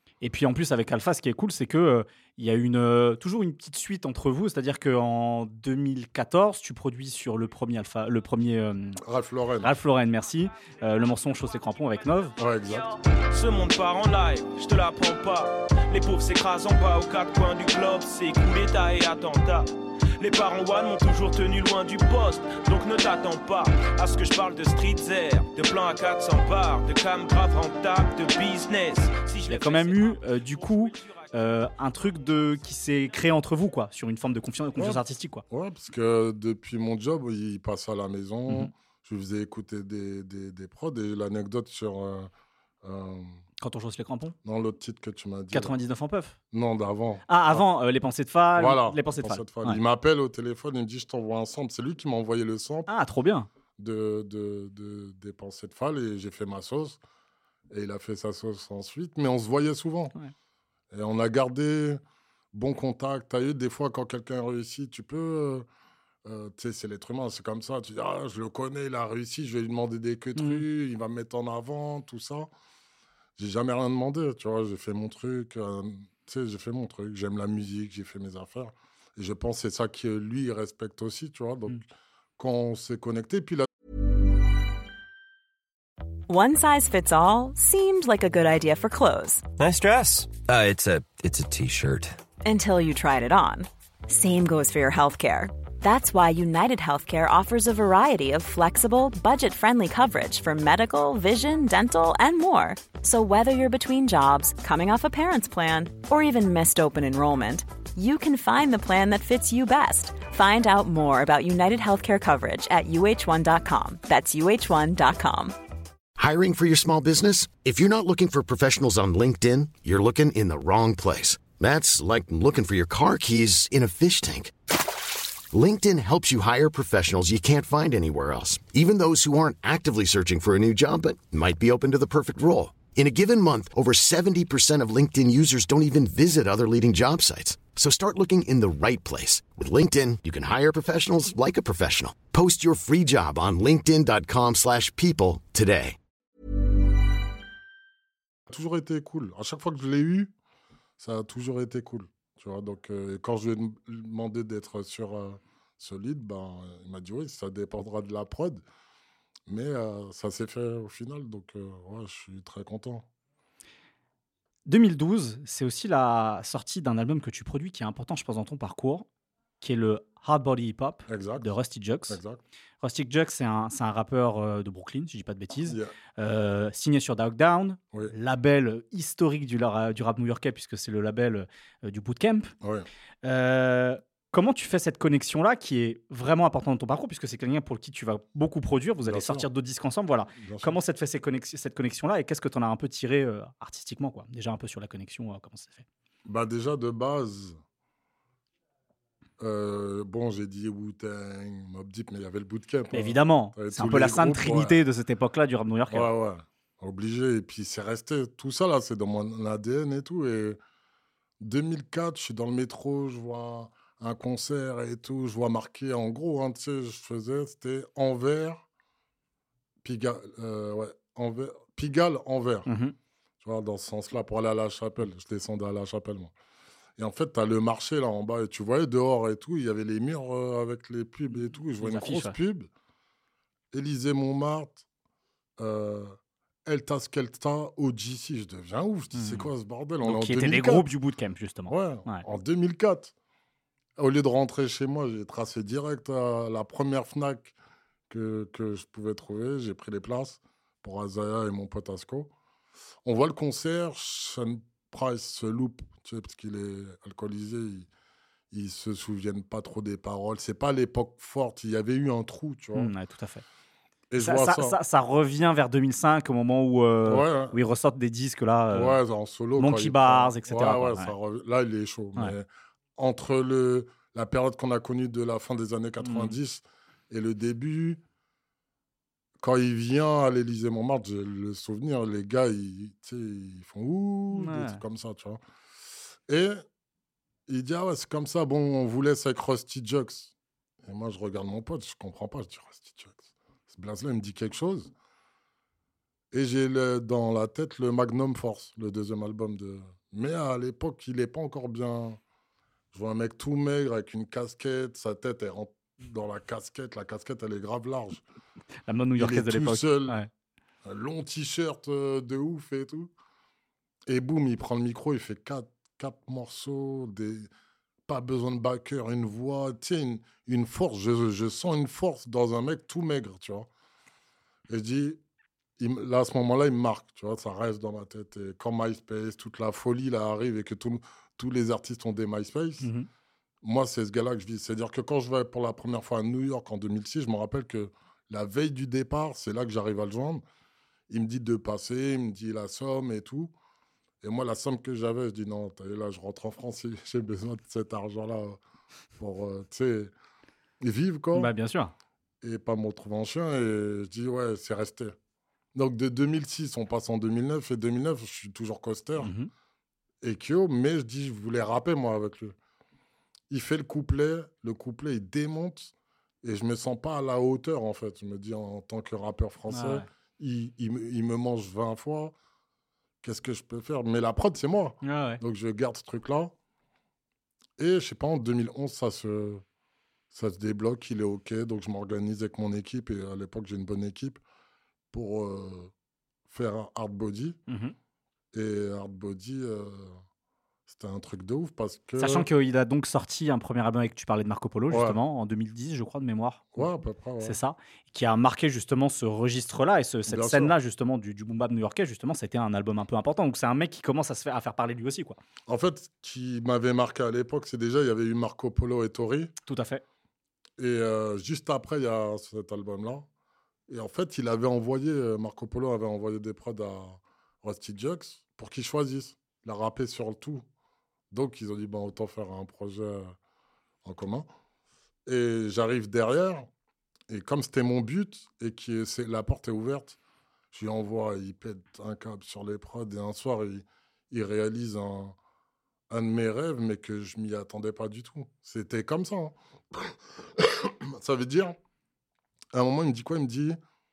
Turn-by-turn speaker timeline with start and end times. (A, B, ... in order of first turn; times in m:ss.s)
0:00.2-0:09.0 A
0:09.0-0:09.7 B
0:09.6-0:12.4 A
0:12.4-0:12.9 B
0:13.3-0:31.3 C
0:29.4-0:35.4 A
0:34.8-0:42.3 B
0:38.5-0:38.7 A
0:42.8-0:43.4 B
0:43.6-0:44.4 A
0:44.4-0:45.7 B
0:45.5-0:46.4 A
0:46.5-0:47.6 B
0:47.3-0:49.8 A
0:48.6-0:52.9 B
0:52.9-0:53.5 A
0:53.8-0:57.0 B
0:57.7-1:00.1 B
1:00.9-1:02.0 B
1:02.5-1:05.6 B
1:06.2-1:12.5 B
1:10.4-1:10.6 A
1:13.4-1:21.8 B
1:22.4-1:23.7 B
1:26.3-1:29.4 D
1:29.6-1:32.2 E
1:32.4-1:55.6 D
1:56.2-2:04.5 F
2:05.5-2:26.0 F
2:28.5-2:30.3 B
2:31.0-2:38.6 B
2:39.5-2:43.1 B
2:44.6-2:49.0 A
2:49.6-2:52.2 A
2:51.1-2:51.5 B
2:52.1-2:52.4 B
2:52.8-3:02.5 A
2:55.6-2:55.9 B
3:02.6-3:02.9 B
3:03.2-3:15.9 A
3:09.0-3:09.4 B
3:10.3-3:10.8 B
3:16.2-3:17.6 B
3:19.4-3:24.8 B
3:22.9-3:26.1 A
3:25.9-3:30.6 B
3:31.4-3:38.6 B
3:39.8-3:42.7 B
3:42.6-3:42.9 A
3:43.4-3:46.3 B
3:47.0-3:52.7 B
3:51.8-3:52.4 A
3:53.7-3:54.8 B
3:55.6-4:00.9 B
3:59.1-3:59.5 A
4:00.0-4:02.2 A
4:01.7-4:03.1 B
4:04.0-4:07.5 B
4:08.1-4:12.3 B
4:13.0-4:17.9 B
4:18.5-4:22.9 B
4:22.7-4:23.4 A
4:24.1-4:24.8 B
4:24.2-4:29.0 A
4:27.0-4:27.6 B
4:28.7-4:38.0 B
4:29.6-4:31.1 A
4:36.0-4:36.3 A
4:39.4-4:45.4 B
4:44.3-4:44.8 A
4:46.3-4:46.6 B
4:47.5-4:54.9 B
4:56.3-5:02.2 B
5:02.9-5:08.2 B
5:08.9-5:10.3 A
5:09.2-5:10.2 B
5:10.8-5:13.1 B
5:14.1-5:17.5 B
5:18.1-5:23.7 B
5:24.7-5:25.2 B
5:25.8-5:32.9 B
5:32.8-5:33.1 A
5:33.6-5:40.4 B
5:41.1-5:43.5 B
5:44.2-5:48.6 B
5:49.2-5:50.1 B
5:50.8-5:51.5 B
5:51.3-5:51.9 A
5:52.4-5:55.1 B
5:55.7-5:59.3 B
5:59.2-5:59.5 A
6:00.2-6:02.5 B
6:03.5-6:05.9 B
6:06.4-6:12.3 B
6:09.7-6:10.0 A
6:13.2-6:16.5 B
6:15.0-6:15.4 A
6:17.8-6:19.6 B
6:20.3-6:24.4 B
6:25.1-6:25.9 B
6:26.5-6:27.6 B
6:27.7-6:27.9 A
6:28.5-6:30.2 B
6:30.9-6:32.4 B
6:32.2-6:36.8 A
6:34.9-6:35.2 B
6:36.7-6:37.6 B
6:37.4-6:45.4 A
6:40.3-6:40.7 B
6:45.7-6:49.5 B
6:49.7-6:50.0 A
6:50.8-6:53.3 B
6:53.9-7:00.6 B
7:01.3-7:03.3 B
7:04.0-7:04.5 B
7:05.2-7:06.7 B
7:07.3-7:10.2 B
7:10.7-7:15.4 B
7:16.1-7:21.8 B
7:22.7-7:23.8 B